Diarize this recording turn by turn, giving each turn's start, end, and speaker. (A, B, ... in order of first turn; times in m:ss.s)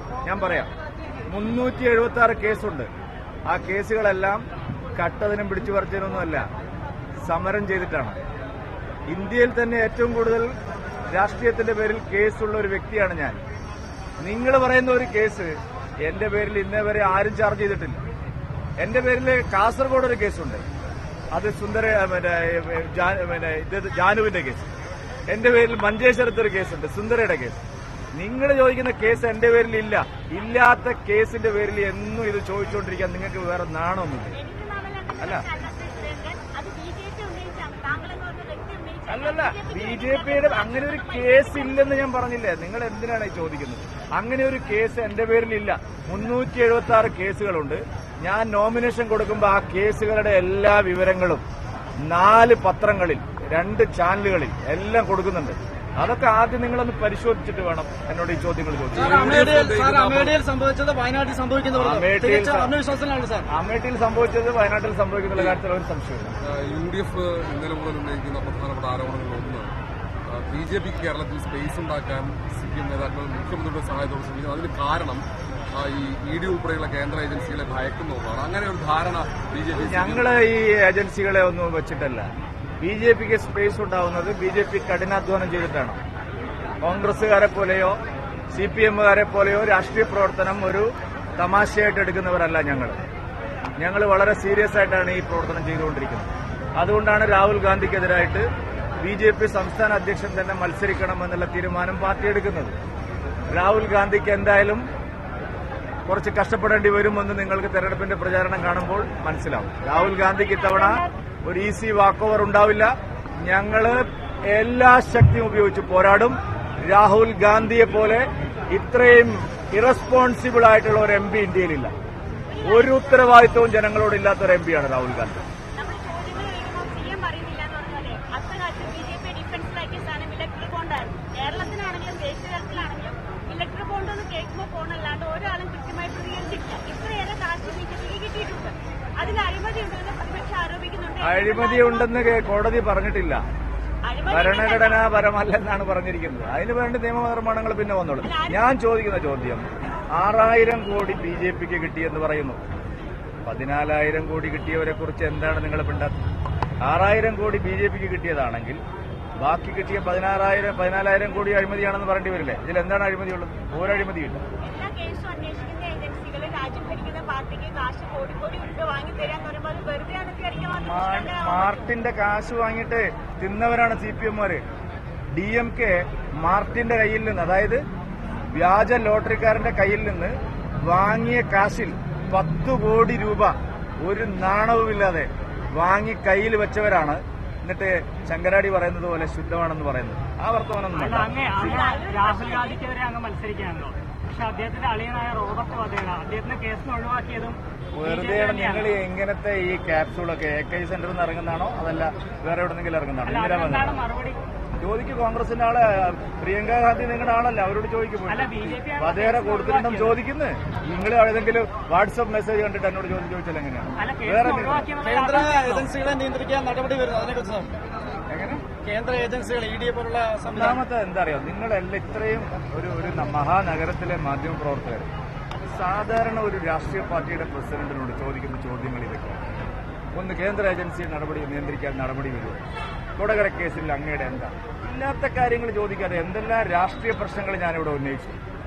0:00.2-0:00.7 A
0:01.3-0:02.9 A
0:03.5-0:04.4 A
0:05.0-0:06.4 A
0:07.2-0:08.2 A
0:09.1-0:10.5 A
0:11.1-0:13.4 A
0:14.2-0:18.0 A
0:18.8-0:20.6 A
0:21.3-0:24.7 A
0:25.3-0:27.6 A
0:28.2-0:34.4 A
0:34.3-0:41.9 B
0:39.1-0:51.4 A
0:52.0-0:59.5 A
0:58.9-1:03.5 C
0:59.0-1:00.4 D
1:01.7-1:02.7 A
1:03.5-1:06.3 A
1:06.4-1:09.7 D
1:10.2-1:20.4 D
1:19.8-1:22.3 A
1:22.8-1:26.0 A
1:26.8-1:28.0 A
1:28.5-1:33.0 A
1:33.8-1:38.5 A
1:39.0-1:42.8 A
1:43.5-1:44.8 A
1:46.1-2:01.9 A
1:49.9-1:51.1 B
2:02.5-2:03.4 B
2:02.6-2:05.4 A
2:05.8-2:22.1 B
2:21.2-2:23.4 A
2:24.0-2:25.1 B
2:24.3-2:32.6 A
2:28.2-2:28.7 B
2:33.5-2:36.1 A
2:36.8-2:38.8 A
2:39.4-2:44.4 A
2:44.6-2:51.9 B
2:50.8-2:54.6 A
2:55.3-2:57.8 A
2:58.5-3:11.3 A
3:11.0-3:18.9 E
3:11.5-3:12.8 B
3:18.0-3:24.0 A
3:23.2-3:24.4 E
3:24.8-3:34.9 A
3:28.3-3:30.2 E
3:34.0-3:35.9 E
3:35.0-3:37.7 C
3:38.3-3:38.6 A
3:38.7-3:40.8 C
3:40.5-3:45.1 A
3:45.7-3:49.4 A
3:50.1-3:52.6 A
3:53.2-3:58.4 A